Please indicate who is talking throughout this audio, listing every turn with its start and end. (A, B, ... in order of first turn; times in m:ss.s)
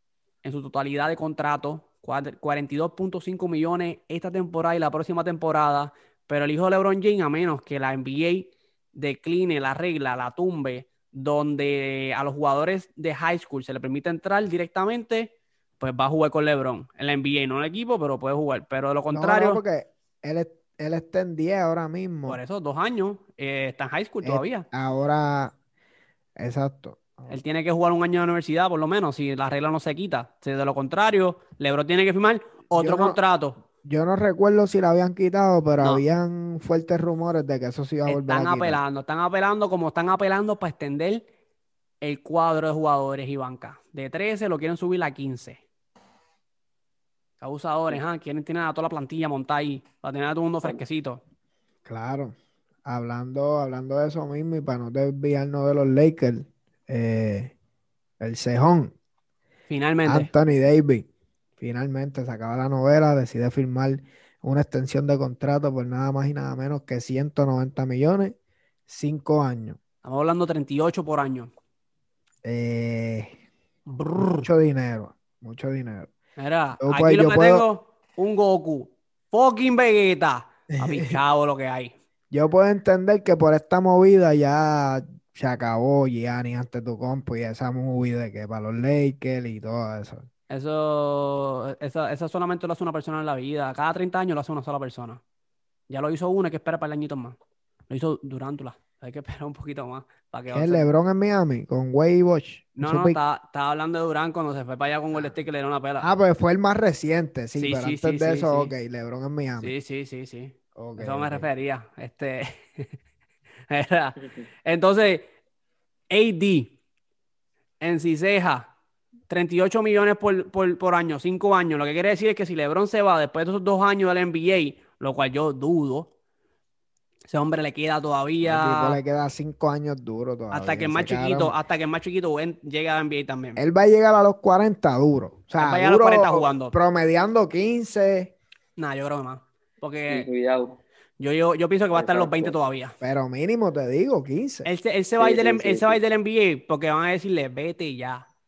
0:00.4-0:19.6 A
0:19.1-0:22.4 B
0:22.3-0:24.6 A
0:24.2-0:25.5 B
0:26.4-0:27.4 B
0:27.3-0:33.6 A
0:32.7-0:33.2 B
0:33.8-0:38.8 B
0:38.1-0:41.2 A
0:42.0-0:45.6 A
0:47.4-0:51.2 A
0:51.8-0:57.6 B
0:58.2-0:58.9 B
0:59.7-1:00.3 A
1:00.1-1:01.1 B
1:01.6-1:08.4 B
1:08.9-1:09.8 B
1:10.0-1:11.5 A
1:12.4-1:13.4 B
1:13.9-1:14.5 A
1:14.4-1:16.1 B
1:16.4-1:21.9 A
1:16.8-1:17.6 B
1:20.8-1:21.1 B
1:22.3-1:30.3 B
1:30.5-1:35.2 A
1:35.9-1:37.4 A
1:37.9-1:40.9 A
1:40.5-1:43.2 B
1:42.8-1:46.1 A
1:46.0-1:49.7 B
1:47.6-1:48.7 A
1:49.6-1:52.9 A
1:50.8-1:51.5 B
1:53.7-1:55.3 A
1:56.1-1:56.7 A
1:57.8-1:58.7 A
1:59.3-2:06.1 A
2:07.3-2:09.0 A
2:08.4-2:11.6 B
2:10.5-2:13.6 A
2:13.6-2:18.3 B
2:15.6-2:16.7 A
2:18.8-2:20.3 A
2:20.1-2:20.8 C
2:21.2-2:22.9 A
2:21.9-2:22.6 C
2:23.0-2:24.7 B
2:24.6-2:28.2 A
2:25.2-2:26.0 C